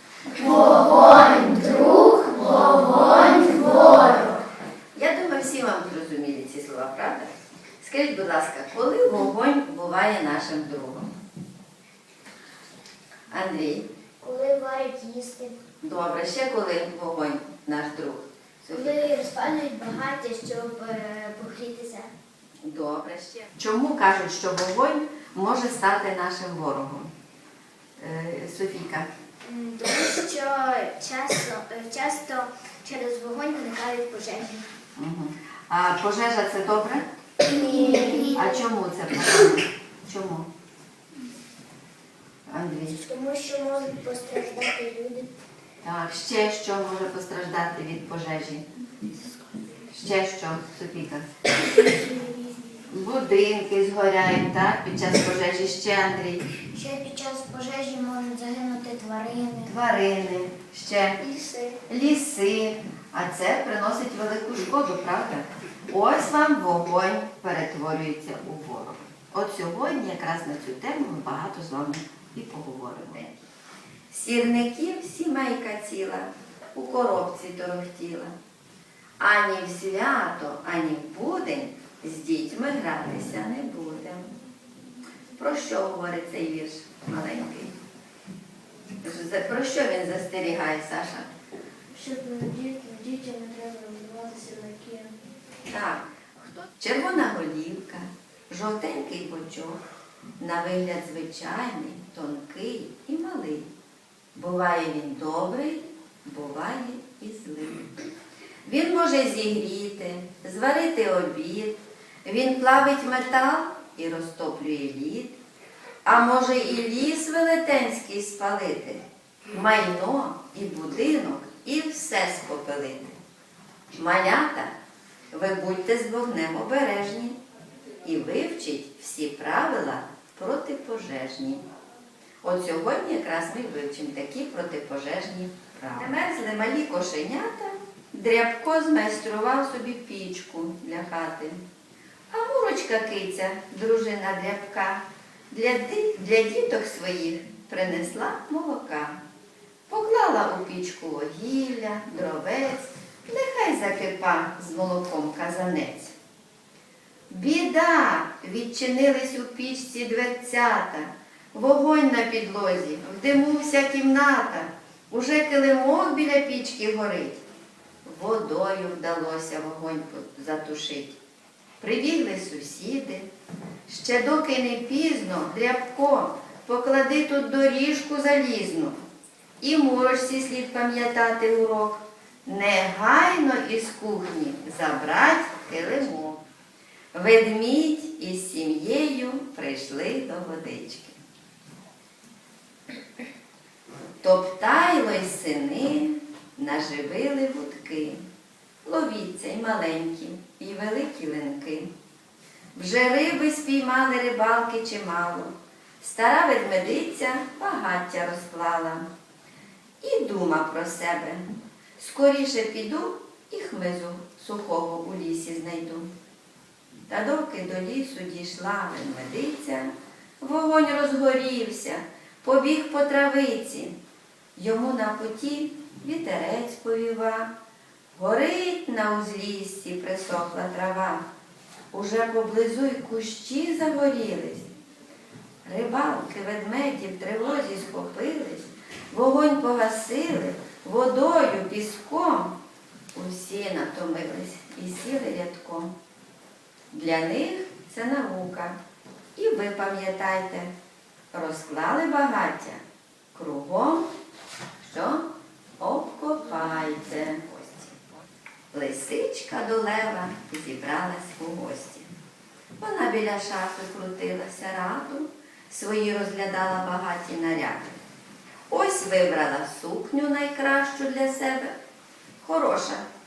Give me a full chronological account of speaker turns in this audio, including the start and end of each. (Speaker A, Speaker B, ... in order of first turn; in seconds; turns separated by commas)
Speaker A: 0.4-4.3, Speaker B: 0.5-1.4, Speaker B: 4.9-11.1, Speaker B: 13.3-13.9, Speaker A: 14.2-15.6, Speaker B: 15.8-19.1, Speaker A: 18.7-22.1, Speaker B: 22.6-27.1, Speaker B: 28.0-29.1, Speaker A: 29.4-34.6, Speaker B: 34.9-37.1, Speaker A: 37.4-38.4, Speaker B: 38.3-40.5, Speaker B: 42.5-43.0, Speaker A: 42.9-45.3, Speaker B: 45.8-48.6, Speaker B: 49.8-51.3, Speaker A: 51.7-52.8, Speaker B: 52.8-56.6, Speaker A: 56.7-59.7, Speaker B: 59.6-61.2, Speaker A: 61.2-61.8, Speaker B: 61.9-73.4, Speaker B: 74.1-78.3, Speaker B: 79.2-84.3, Speaker B: 85.3-87.8, Speaker B: 89.0-91.3, Speaker A: 91.9-95.1, Speaker B: 95.7-99.8, Speaker B: 100.4-103.7, Speaker B: 104.3-108.0, Speaker B: 108.6-115.3, Speaker B: 116.0-123.1, Speaker B: 123.9-124.7, Speaker B: 125.3-127.4, Speaker B: 128.0-131.6, Speaker B: 132.4-141.6, Speaker B: 142.3-149.2, Speaker B: 149.9-156.1, Speaker B: 157.3-167.4, Speaker B: 168.0-171.2, Speaker B: 171.8-173.3, Speaker B: 173.9-179.0, Speaker B: 179.6-186.4, Speaker B: 187.1-191.2, Speaker B: 194.2-198.2, Speaker B: 198.8-201.9, Speaker B: 202.7-209.0, Speaker B: 210.0-216.1, Speaker B: 217.1-223.9, Speaker B: 224.6-227.5, Speaker B: 228.1-231.2, Speaker B: 231.9-234.7, Speaker B: 235.6-242.6, Speaker B: 243.1-245.9, Speaker B: 246.9-248.8, Speaker B: 249.3-250.7, Speaker B: 251.3-252.8, Speaker B: 253.3-254.1, Speaker B: 254.8-258.0, Speaker B: 258.7-262.1, Speaker B: 262.8-268.0, Speaker B: 268.7-271.7, Speaker B: 272.4-273.1